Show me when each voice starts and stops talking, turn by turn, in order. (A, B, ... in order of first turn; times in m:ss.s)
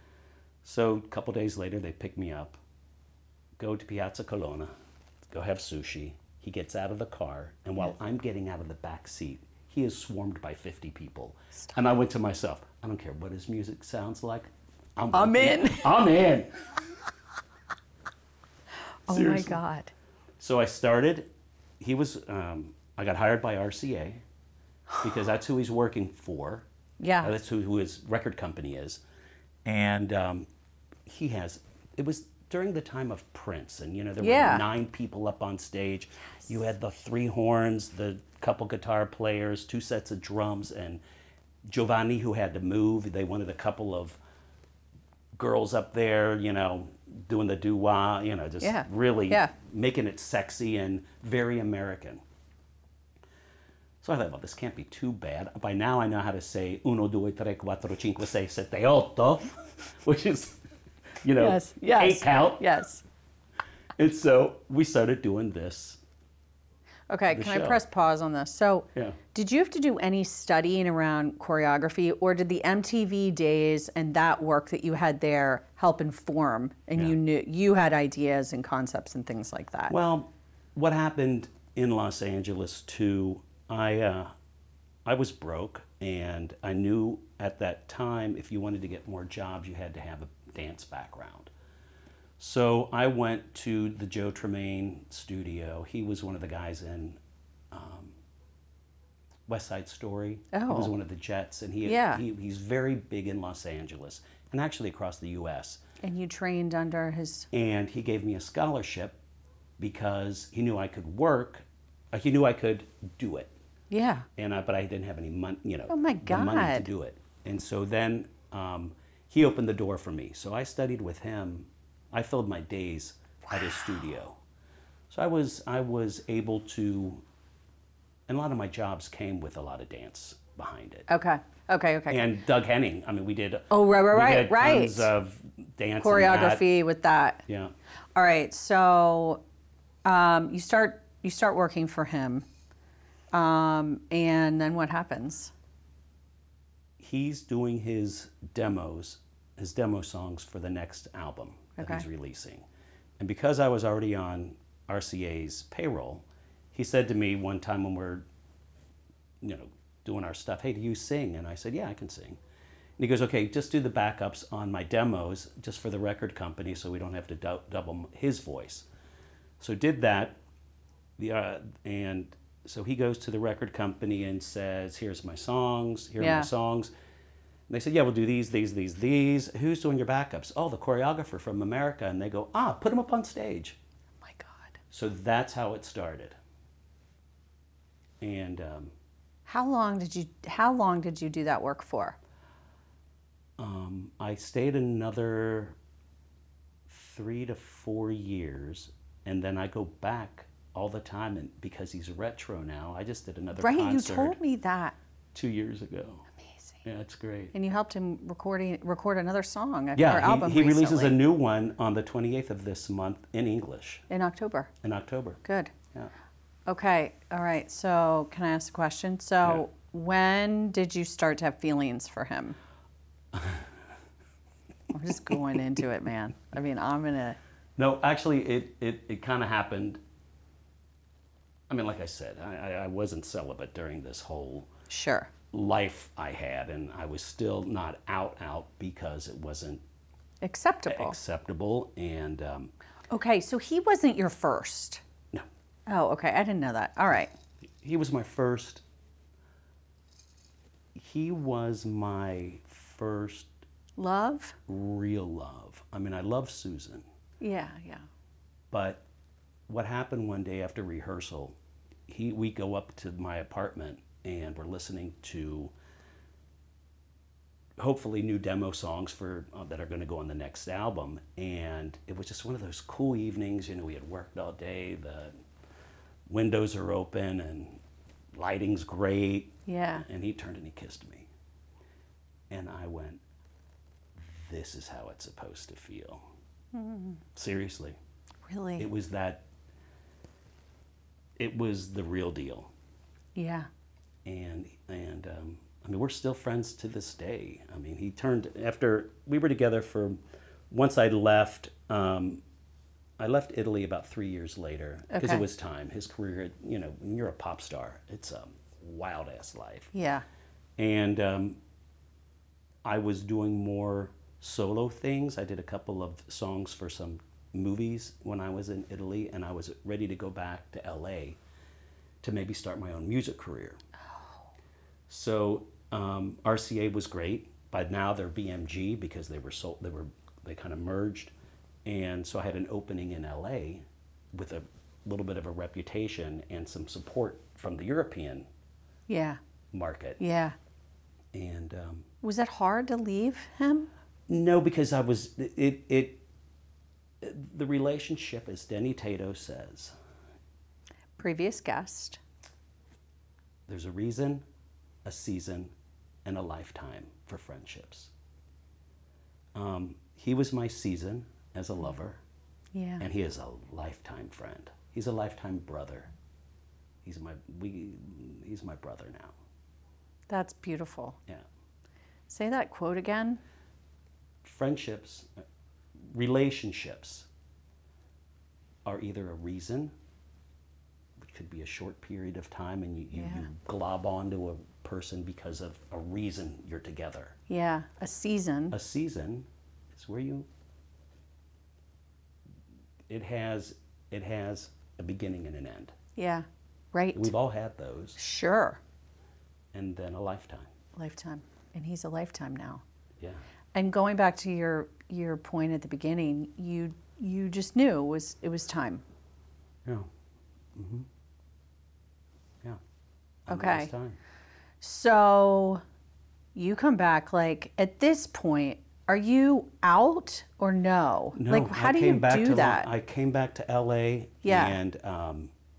0:00.6-0:02.6 A
0:03.6-0:04.7 A
0:05.3-0:16.5 A
0:15.1-0:16.0 B
0:19.1-0:19.9 B
0:19.1-0:19.6 A
0:20.4-0:21.3 A
0:21.8-0:24.2 A
0:25.0-0:26.6 A
0:27.0-0:27.3 B
0:27.2-0:29.0 A
0:29.6-0:30.5 A
0:31.1-0:41.0 A
0:34.2-0:34.6 B
0:41.7-0:44.2 A
0:45.4-0:52.2 A
0:48.6-0:49.5 B
0:54.0-1:00.6 A
1:01.2-1:02.6 A
1:01.4-1:03.0 B
1:04.0-1:06.0 A
1:07.1-1:19.9 B
1:07.3-1:07.8 A
1:19.9-1:24.3 A
1:25.0-1:31.5 A
1:32.4-1:37.2 A
1:37.7-1:38.2 A
1:39.5-1:45.8 A
1:40.5-1:40.9 B
1:41.8-1:42.2 B
1:46.0-1:47.5 B
1:47.5-1:49.2 A
1:49.8-1:53.5 A
1:53.9-1:54.3 B
1:54.4-2:04.4 A
1:55.9-1:56.9 B
2:05.1-2:07.2 A
2:08.3-2:11.1 A
2:11.1-2:12.3 B
2:12.1-2:16.7 A
2:13.7-2:15.1 B
2:16.0-2:17.4 B
2:17.5-2:17.7 A
2:18.1-2:19.4 B
2:20.0-2:22.5 B
2:23.3-2:25.5 B
2:27.0-2:32.7 A
2:31.8-2:32.0 B
2:33.2-2:38.2 A
2:39.4-2:42.4 A
2:43.0-2:48.9 A
2:49.6-2:50.4 A
2:51.2-2:56.9 A
2:56.2-2:56.5 B
2:57.7-3:03.8 A
3:04.2-3:04.8 B
3:04.9-3:06.4 A
3:08.2-3:08.9 A
3:09.5-3:12.2 B
3:13.6-3:15.8 A
3:16.9-3:24.4 A
3:23.6-3:25.0 B
3:25.3-3:26.3 A
3:26.4-3:26.8 B
3:26.8-3:27.5 A
3:27.5-3:31.2 B
3:30.0-3:34.0 A
3:34.1-3:34.7 B
3:34.8-3:35.4 A
3:35.4-3:35.7 B
3:36.7-3:42.6 B
3:43.3-3:43.6 A
3:44.9-3:47.4 B
3:47.8-3:50.0 A
3:51.7-3:54.7 A
3:54.9-3:55.3 B
3:55.5-3:59.8 A
4:00.4-4:01.2 B
4:00.9-4:02.7 A
4:03.1-4:05.0 B
4:05.9-4:07.3 B
4:07.8-4:08.8 A
4:11.0-4:13.5 A
4:14.0-4:14.6 B
4:14.7-4:17.0 A
4:17.4-4:18.1 B
4:18.7-4:19.0 A
4:19.7-4:21.6 A
4:22.1-4:25.7 A
4:27.8-4:35.3 A
4:36.3-4:37.8 A
4:38.3-4:41.3 A
4:39.7-4:40.0 B
4:42.5-4:43.2 A
4:44.2-4:46.2 A
4:46.7-4:47.2 B
4:47.4-4:48.0 A
4:48.5-4:48.9 B
4:48.8-4:49.4 A
4:51.4-4:52.7 A
4:53.4-4:53.7 B
4:54.2-5:00.2 A
5:00.7-5:02.4 A
5:03.2-5:09.9 A
5:05.1-5:05.4 B
5:09.9-5:10.2 B
5:10.8-5:11.6 A
5:12.8-5:21.4 A
5:22.2-5:23.8 A
5:24.1-5:24.4 B
5:25.1-5:31.3 A
5:31.8-5:38.5 A
5:39.1-5:39.4 B
5:39.7-5:40.2 A
5:40.2-5:40.6 B
5:41.3-5:42.1 A
5:42.2-5:43.9 B
5:44.3-5:46.2 A
5:47.2-5:49.9 A
5:51.2-5:52.2 B
5:53.7-5:54.4 A
5:55.0-5:55.7 A
5:56.2-5:58.1 A
5:59.6-6:02.2 A
6:02.7-6:03.0 B
6:03.0-6:06.1 A
6:07.0-6:09.4 A
6:10.3-6:11.2 B
6:12.3-6:13.4 B
6:14.4-6:15.3 A
6:16.0-6:17.3 A
6:18.8-6:19.9 A
6:21.2-6:27.4 A
6:23.1-6:23.5 B
6:27.5-6:28.8 B
6:28.7-6:30.5 A
6:33.1-6:36.0 A
6:36.2-6:37.3 B
6:37.1-6:38.2 A
6:38.2-6:38.8 B
6:39.7-6:40.7 A
6:41.0-6:42.8 B
6:43.7-6:49.0 B
6:50.8-6:51.1 A
6:53.5-6:54.2 A
6:53.5-6:53.9 B
6:54.8-6:55.8 B
6:56.5-7:02.9 B
7:01.3-7:05.5 A
7:04.4-7:04.8 B